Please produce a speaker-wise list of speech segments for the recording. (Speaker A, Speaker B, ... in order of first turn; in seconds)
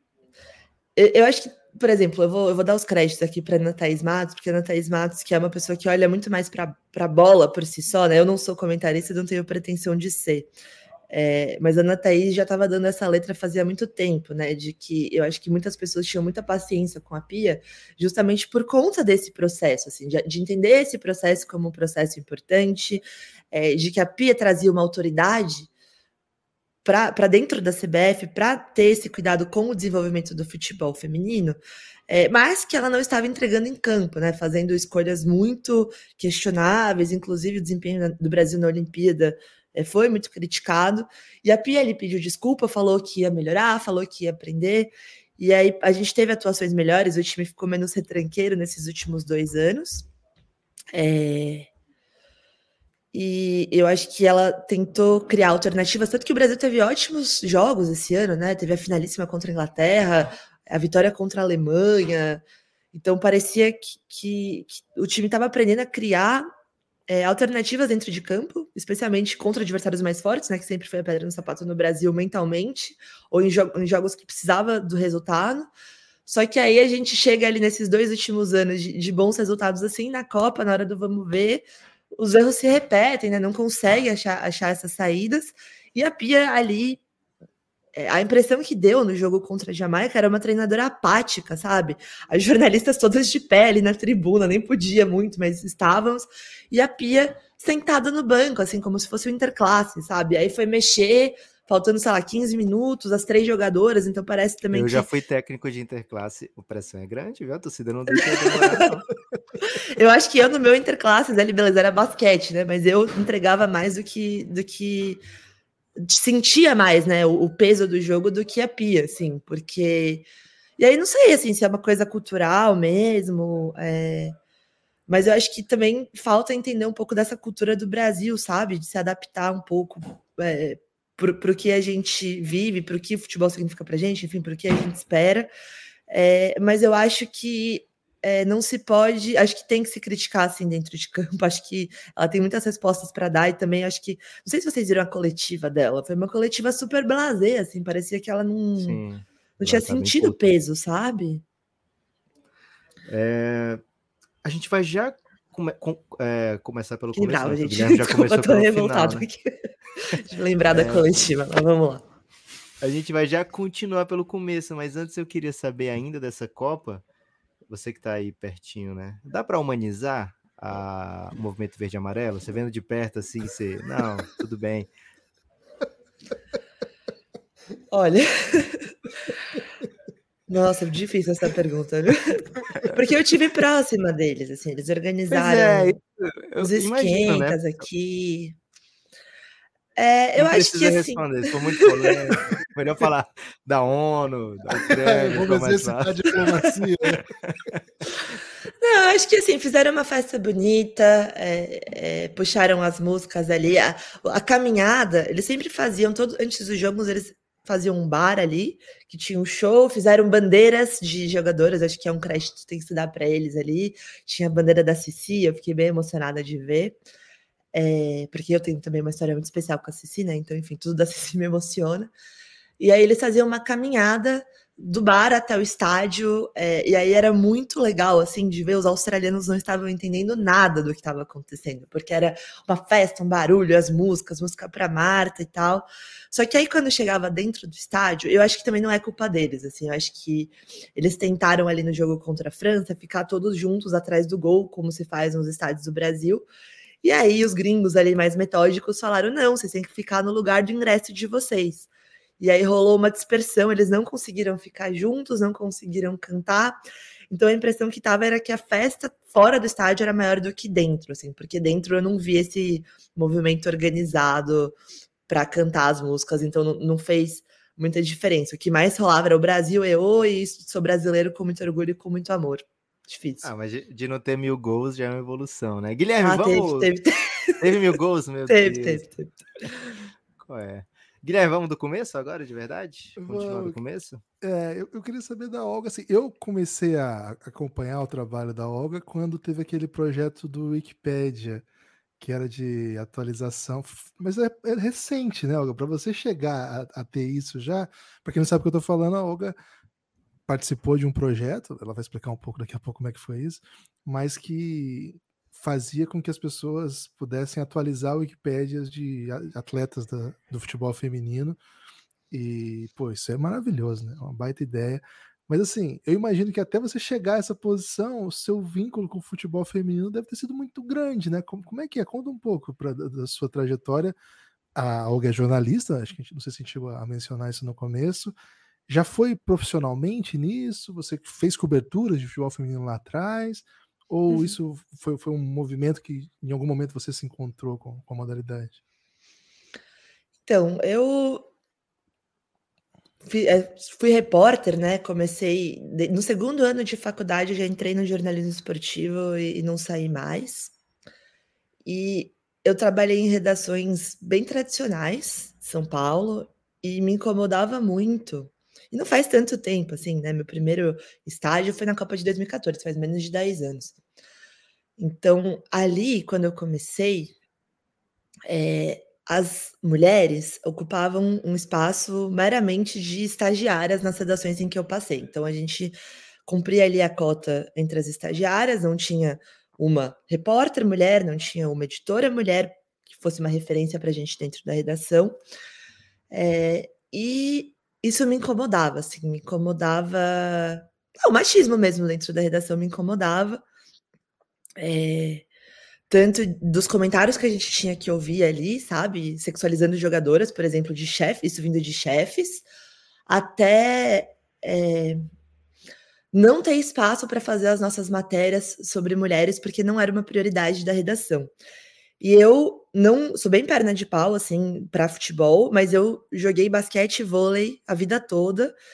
Speaker A: 0.9-10.5, 11.1-25.7, 26.8-31.6, 32.1-50.1, 50.9-51.7, 53.1-66.5, 67.1-75.7, 76.2-81.6, 82.2-87.0, 88.0-105.1, 108.5-108.9, 109.6-115.2, 116.0-120.3, 120.8-124.3, 125.1-135.5, 136.1-149.0, 149.6-151.4, 157.1-162.0, 177.9-178.9, 180.5-186.0, 186.6-188.6, 190.0-192.1, 198.8-217.0, 217.7-222.1, 222.8-246.4, 247.0-251.9, 252.4-256.8, 257.3-264.7, 265.3-273.5, 276.2-277.8, 278.5-279.9, 334.3-334.5, 340.4-341.5, 343.2-350.7, 351.8-363.9, 365.0-367.3, 368.5-375.9, 376.4-385.4, 386.3-393.6, 394.8-395.4, 396.1-402.6, 403.3-405.2, 406.3-411.5, 412.2-418.7
Speaker B: 104.7-109.1, 148.8-150.4, 153.1-153.8, 154.4-159.2, 160.7-161.1, 162.8-167.0, 167.7-174.9, 185.3-187.6, 190.4-196.4, 197.1-197.8, 273.4-276.9, 277.6-279.1, 280.4-284.2
Speaker C: 194.9-197.2, 283.2-283.8, 284.4-291.6, 292.2-299.5, 300.5-311.6, 312.3-324.1, 324.7-328.3, 328.9-338.8